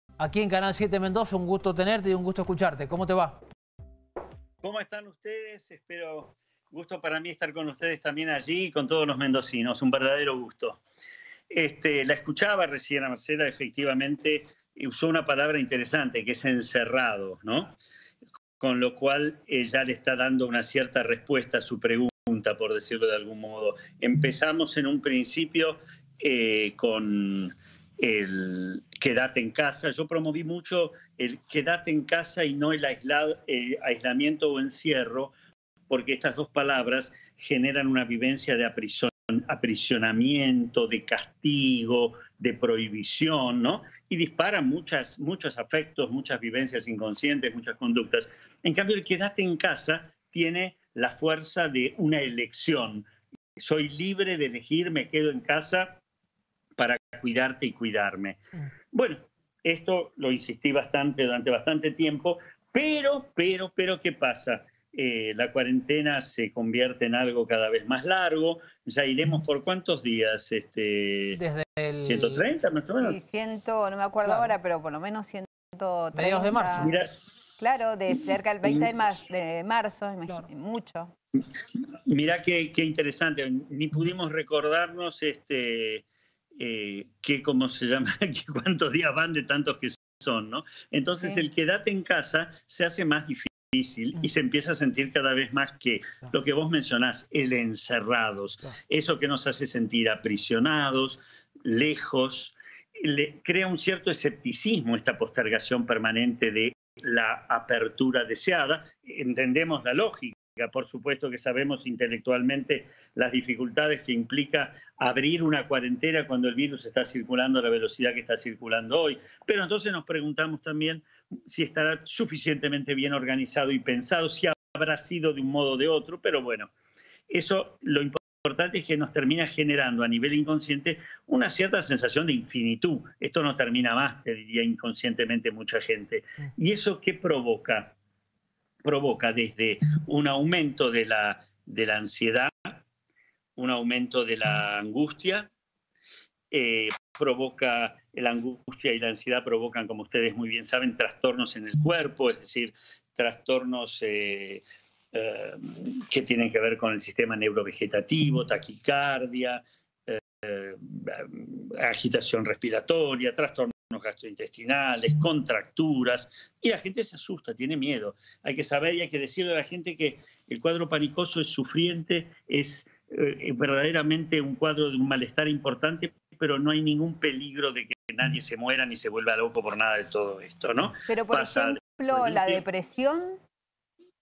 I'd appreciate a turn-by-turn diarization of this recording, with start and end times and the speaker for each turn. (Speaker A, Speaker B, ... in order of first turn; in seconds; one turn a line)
Speaker A: 0.2-3.4
Speaker B: 4.6-10.8
Speaker B: 11.5-17.7
Speaker B: 18.6-35.3
Speaker B: 35.9-53.0
Speaker B: 53.6-56.0
Speaker B: 56.8-58.4
Speaker B: 58.9-71.4
Speaker A: 71.3-72.4
Speaker B: 72.0-73.2
Speaker C: 73.0-76.9
Speaker A: 74.2-74.5
Speaker A: 76.1-76.9
Speaker B: 76.8-77.1
Speaker C: 77.6-81.1
Speaker B: 82.1-126.7
Speaker C: 91.2-91.5
Speaker B: 127.3-137.9
Speaker B: 138.8-142.8
Speaker B: 143.6-145.5
Speaker B: 146.5-182.6
Speaker C: 181.1-183.4